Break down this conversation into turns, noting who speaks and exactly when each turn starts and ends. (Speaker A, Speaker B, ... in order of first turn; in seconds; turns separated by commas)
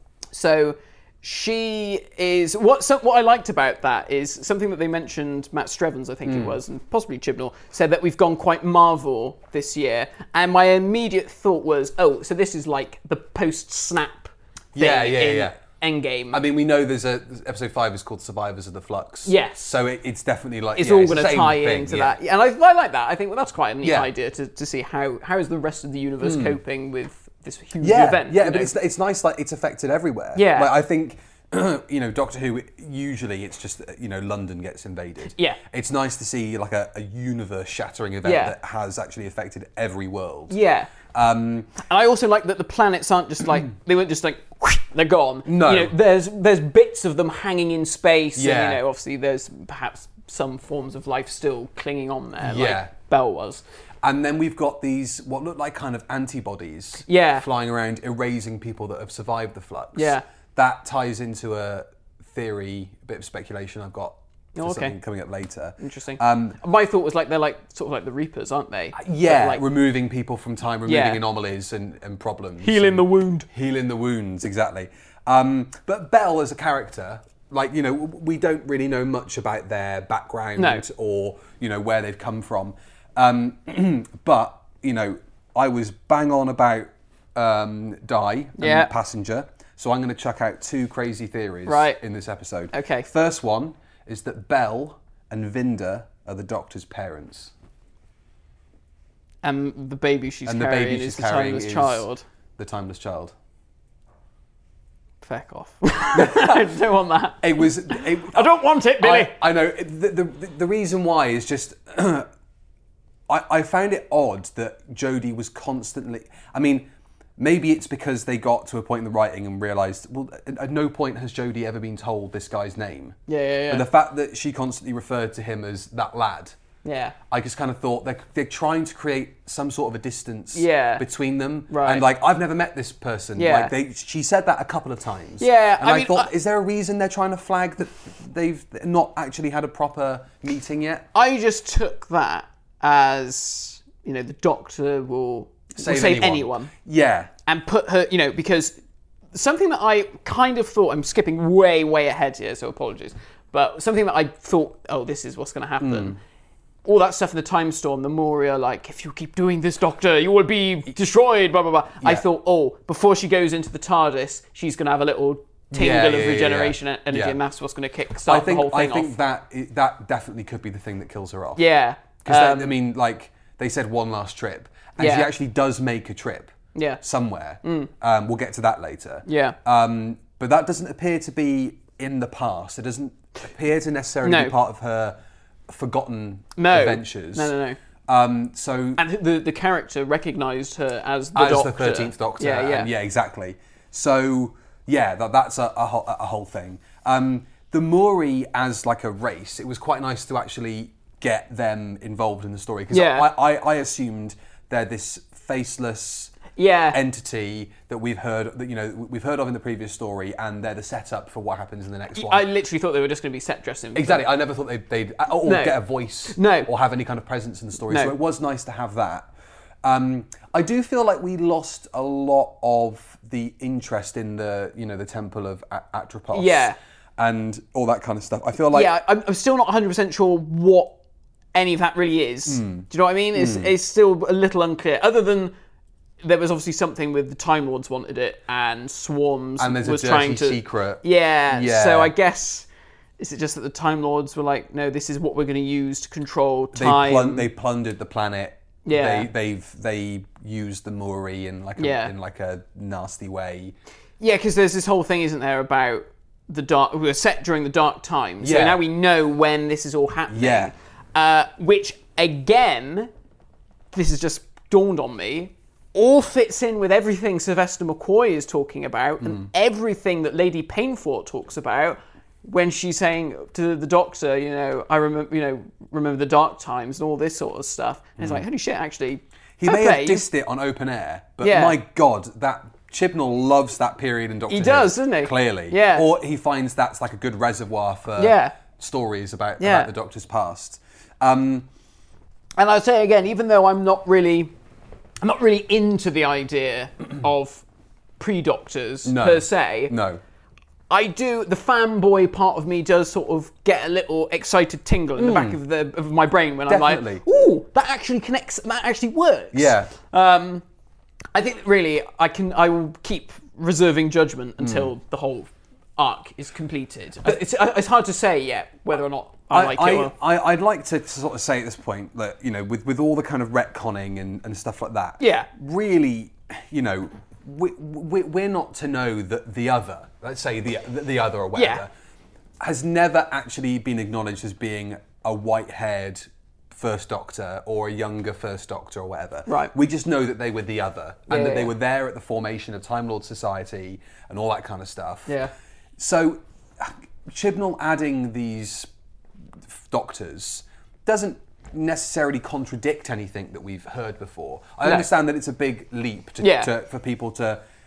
Speaker A: 0.3-16.4, Speaker B: 6.2-6.6, Speaker B: 14.7-15.6, Speaker B: 16.3-22.2, Speaker A: 19.2-19.7, Speaker A: 20.8-28.7, Speaker B: 23.8-24.1, Speaker B: 26.2-26.6, Speaker B: 27.8-41.8, Speaker A: 30.4-30.7, Speaker A: 38.2-38.5, Speaker A: 40.5-40.9, Speaker A: 41.8-53.6, Speaker B: 45.5-46.0, Speaker B: 48.4-48.8, Speaker B: 52.4-52.9, Speaker B: 54.0-66.6, Speaker A: 57.1-57.5, Speaker A: 60.0-60.2, Speaker A: 64.5-64.9, Speaker A: 65.8-69.6, Speaker B: 69.0-97.5, Speaker A: 70.9-71.2, Speaker A: 72.6-73.5, Speaker A: 80.6-80.8, Speaker A: 88.6-88.9, Speaker A: 91.7-92.0, Speaker A: 92.7-93.1, Speaker A: 99.4-102.2, Speaker B: 100.5-102.1, Speaker B: 102.6-103.3, Speaker A: 105.2-109.4, Speaker B: 106.1-106.6, Speaker B: 107.4-112.3, Speaker B: 113.3-123.2, Speaker A: 123.3-123.9, Speaker B: 123.7-126.6, Speaker A: 126.8-127.2, Speaker B: 127.3-141.1, Speaker A: 130.5-131.1, Speaker A: 131.7-132.1, Speaker A: 133.4-133.7, Speaker A: 135.4-136.3, Speaker A: 141.1-146.7, Speaker B: 145.8-147.3, Speaker A: 147.5-148.8, Speaker A: 149.3-156.2, Speaker B: 155.8-156.2, Speaker A: 156.8-169.2, Speaker B: 165.7-167.4, Speaker B: 168.3-171.6, Speaker A: 171.6-172.8, Speaker B: 172.2-187.5, Speaker A: 175.0-175.3, Speaker A: 176.8-177.0, Speaker A: 177.6-177.9, Speaker A: 179.3-179.6, Speaker A: 184.2-184.6, Speaker A: 186.6-187.8, Speaker B: 188.1-189.0, Speaker A: 189.0-192.9, Speaker B: 191.3-206.4, Speaker A: 202.9-203.3, Speaker A: 206.6-207.0, Speaker B: 206.9-212.5, Speaker A: 212.1-214.3, Speaker B: 213.9-219.3, Speaker A: 215.4-216.7, Speaker A: 217.9-218.2, Speaker B: 219.8-228.9, Speaker A: 226.3-226.8, Speaker A: 228.7-231.0, Speaker A: 231.5-235.5, Speaker B: 232.5-233.7, Speaker A: 236.2-242.7, Speaker B: 239.6-242.1, Speaker A: 243.2-247.5, Speaker B: 246.7-253.8, Speaker A: 248.8-249.3, Speaker A: 251.8-252.1, Speaker A: 254.2-263.1, Speaker B: 258.4-258.8, Speaker B: 260.3-260.7, Speaker A: 263.9-280.3, Speaker B: 269.2-269.5, Speaker B: 279.6-291.7, Speaker A: 281.4-281.8, Speaker A: 284.5-286.1, Speaker A: 288.2-288.6, Speaker A: 289.6-289.9, Speaker A: 292.6-294.5, Speaker A: 295.2-297.6, Speaker A: 298.2-299.9, Speaker B: 299.0-300.2, Speaker A: 300.9-310.6, Speaker B: 305.2-305.6, Speaker B: 306.7-307.2, Speaker B: 309.5-309.9, Speaker A: 311.3-320.1, Speaker B: 314.6-314.9, Speaker B: 319.5-331.9, Speaker A: 325.2-325.5, Speaker A: 331.6-331.8, Speaker B: 332.6-345.4, Speaker A: 339.5-339.7, Speaker A: 341.3-341.7, Speaker A: 345.3-345.5, Speaker B: 346.0-348.9, Speaker B: 349.7-357.6, Speaker A: 354.8-355.1, Speaker A: 356.4-356.7